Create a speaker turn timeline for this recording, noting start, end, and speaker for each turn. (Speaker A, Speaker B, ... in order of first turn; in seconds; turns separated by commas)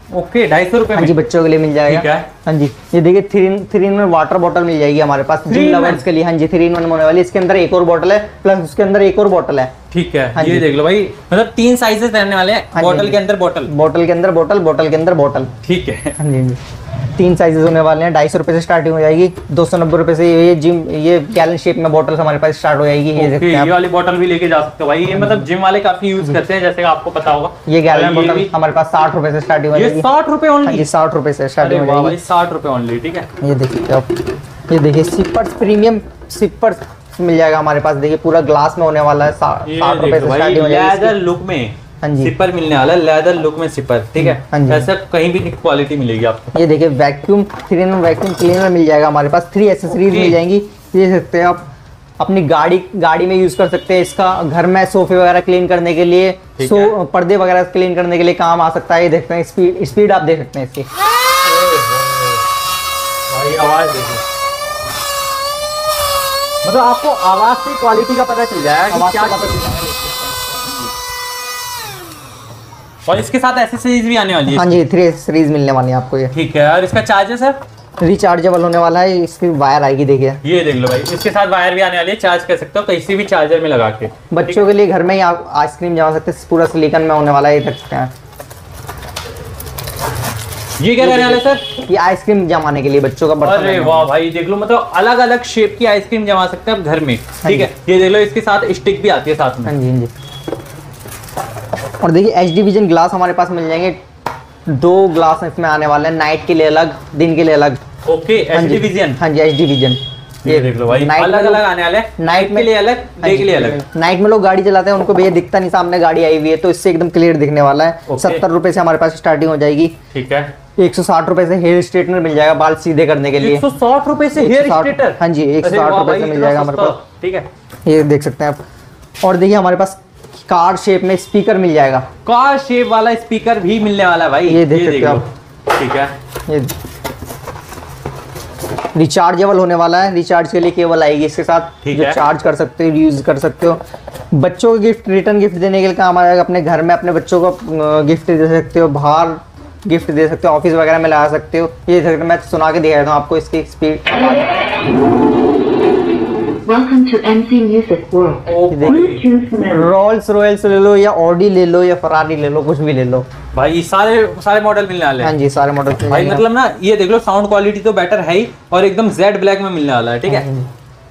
Speaker A: 0.1-1.2, Speaker B: 0.9-9.7, Speaker A: 1.9-2.3, Speaker A: 5.5-6.0, Speaker A: 9.9-13.7, Speaker B: 10.3-10.7, Speaker B: 12.7-15.5, Speaker A: 15.6-16.2, Speaker B: 16.2-16.6, Speaker B: 17.1-23.7, Speaker A: 23.1-28.5, Speaker B: 25.2-25.4, Speaker B: 27.6-30.1, Speaker A: 29.7-30.9, Speaker B: 30.6-32.2, Speaker A: 31.6-33.3, Speaker B: 33.4-41.1, Speaker A: 39.6-46.5, Speaker B: 42.0-42.3, Speaker B: 44.2-44.9, Speaker B: 46.5-51.7, Speaker A: 50.0-50.4, Speaker B: 52.2-60.9, Speaker A: 56.6-56.9, Speaker A: 61.4-62.4, Speaker A: 63.3-64.2, Speaker A: 66.6-70.9, Speaker B: 68.9-70.2, Speaker A: 73.0-74.8, Speaker B: 74.5-76.3, Speaker A: 76.3-77.6, Speaker B: 78.0-80.4, Speaker A: 80.4-84.6, Speaker B: 84.3-88.1, Speaker A: 90.8-91.6, Speaker B: 91.0-94.1, Speaker A: 93.4-99.7, Speaker B: 97.4-97.7, Speaker B: 99.7-100.1, Speaker B: 102.0-104.0, Speaker B: 104.7-107.8, Speaker A: 108.0-109.2, Speaker B: 108.5-111.6, Speaker A: 110.4-113.8, Speaker B: 112.2-120.0, Speaker A: 118.1-118.4, Speaker A: 120.1-120.5, Speaker B: 120.8-123.6, Speaker A: 123.4-127.5, Speaker B: 124.3-127.0, Speaker B: 127.8-128.6, Speaker B: 129.2-132.1, Speaker A: 132.2-136.1, Speaker B: 134.4-135.2, Speaker B: 136.5-136.7, Speaker B: 138.9-143.8, Speaker A: 141.8-142.2, Speaker B: 144.3-154.5, Speaker C: 156.7-159.9, Speaker A: 158.4-159.2, Speaker B: 158.7-163.2, Speaker A: 163.5-165.3, Speaker B: 165.2-166.4, Speaker A: 166.1-170.5, Speaker B: 170.2-170.7